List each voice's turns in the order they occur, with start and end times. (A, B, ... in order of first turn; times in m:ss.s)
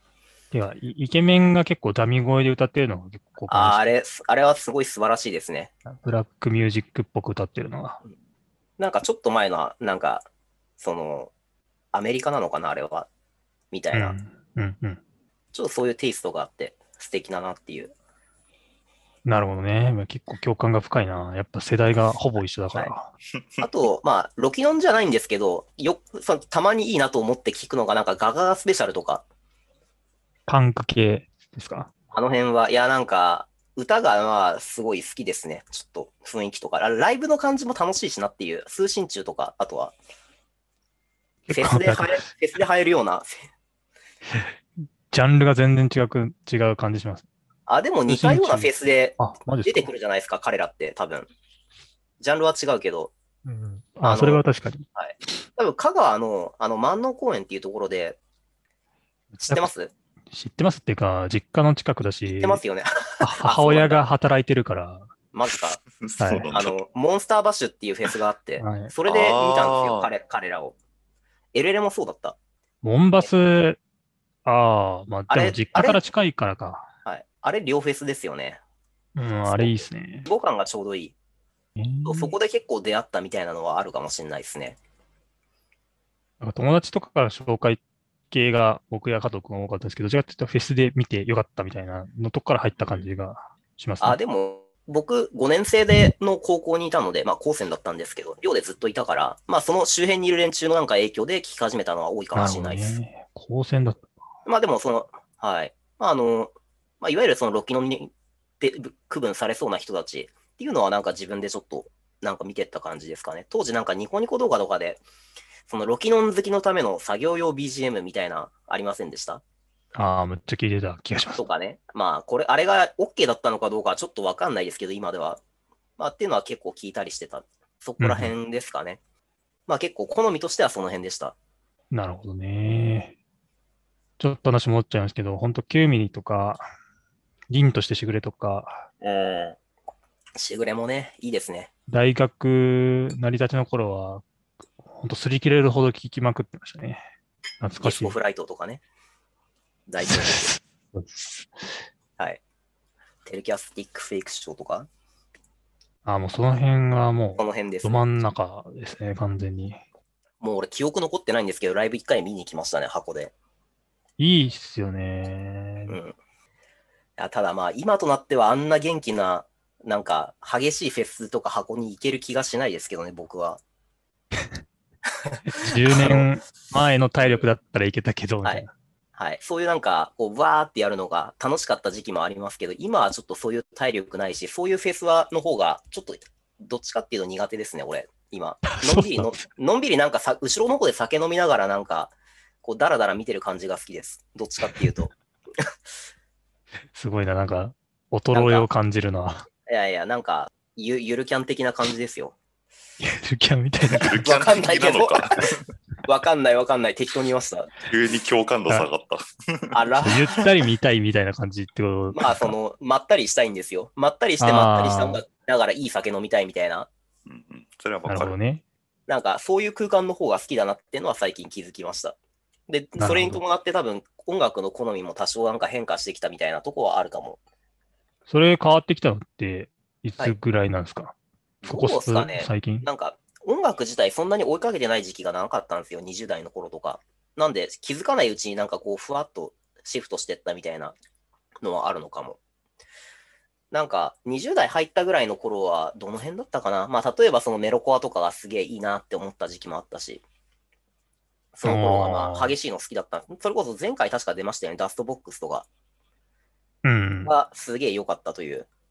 0:00.5-0:03.8 A
0:03.5-0:05.7 B
0:05.8-0:08.0 A
0:08.8-0:10.2 B
0:10.8-0:11.3 B
0:11.9-0:13.1 B
0:13.7-0:14.2 B
0:13.9-0:15.0 A
0:15.5-0:17.9 B
0:19.2-0:23.1 A
0:23.6-0:29.2 B
0:30.5-0:31.9 A
0:32.1-0:39.9 B
0:41.5-0:42.2 A
0:41.5-0:43.4 B
0:45.1-0:47.3 A
0:47.7-0:51.3 B
0:48.1-0:49.9 A
0:52.2-0:53.1 B
0:53.4-0:54.8 A
0:54.0-0:54.4 B
0:54.9-0:58.2 B
0:59.3-0:59.7 A
0:59.4-0:59.9 B
1:00.3-1:02.6 A
1:02.2-1:04.0 B
1:03.2-1:05.1 A
1:05.3-1:05.8 B
1:06.0-1:06.7 C
1:06.2-1:06.5 A
1:06.5-1:10.7 B
1:08.6-1:08.9 A
1:09.1-1:10.1 C
1:11.5-1:12.4 B
1:12.8-1:13.8 A
1:14.4-1:16.9 A
1:15.3-1:16.0 B
1:17.0-1:18.6 B
1:19.2-1:20.3 A
1:19.4-1:21.1 B
1:21.8-1:22.3 A
1:22.0-1:24.8 B
1:26.4-1:34.2 A
1:34.0-1:42.9 B
1:42.3-1:44.1 A
1:44.4-1:55.0 B
1:55.7-1:59.4 B
2:00.0-2:01.4 A
2:01.3-2:05.4 B
2:06.0-2:09.0 B
2:08.0-2:08.3 A
2:09.7-2:11.3 B
2:11.9-2:13.1 A
2:14.2-2:16.6 A
2:17.5-2:18.9 A
2:19.0-2:19.6 B
2:20.4-2:21.7 B
2:21.9-2:24.2 A
2:24.9-2:27.0 A
2:27.6-2:28.2 A
2:27.8-2:28.8 B
2:29.9-2:30.5 B
2:30.0-2:31.7 A
2:33.2-2:34.9 B
2:36.0-2:39.8 A
2:37.4-2:38.0 B
2:40.4-2:43.3 B
2:44.2-2:46.0 A
2:45.9-2:46.1 B
2:47.2-2:53.6 B
2:55.5-2:58.7 A
2:55.5-2:56.3 B
2:59.2-3:12.1 B
3:08.7-3:09.4 A
3:12.6-3:15.7 B
3:16.9-3:19.5 A
3:18.3-3:18.7 B
3:19.7-3:22.4 B
3:23.0-3:24.2 A
3:23.9-3:25.5 C
3:24.2-3:25.4 B
3:26.0-3:27.7 B
3:27.9-3:29.8 C
3:29.7-3:30.4 B
3:30.0-3:32.5 A
3:32.1-3:36.9 B
3:34.4-3:35.2 A
3:37.2-3:38.3 C
3:38.0-3:38.6 A
3:39.1-3:42.2 B
3:42.7-3:47.4 B
3:43.0-3:43.4 A
3:48.3-3:52.9 A
3:51.6-4:00.9 B
4:01.6-4:02.4 B
4:03.7-4:10.2 B
4:11.5-4:15.6 B
4:11.6-4:12.5 A
4:16.8-4:17.3 A
4:17.2-4:18.7 B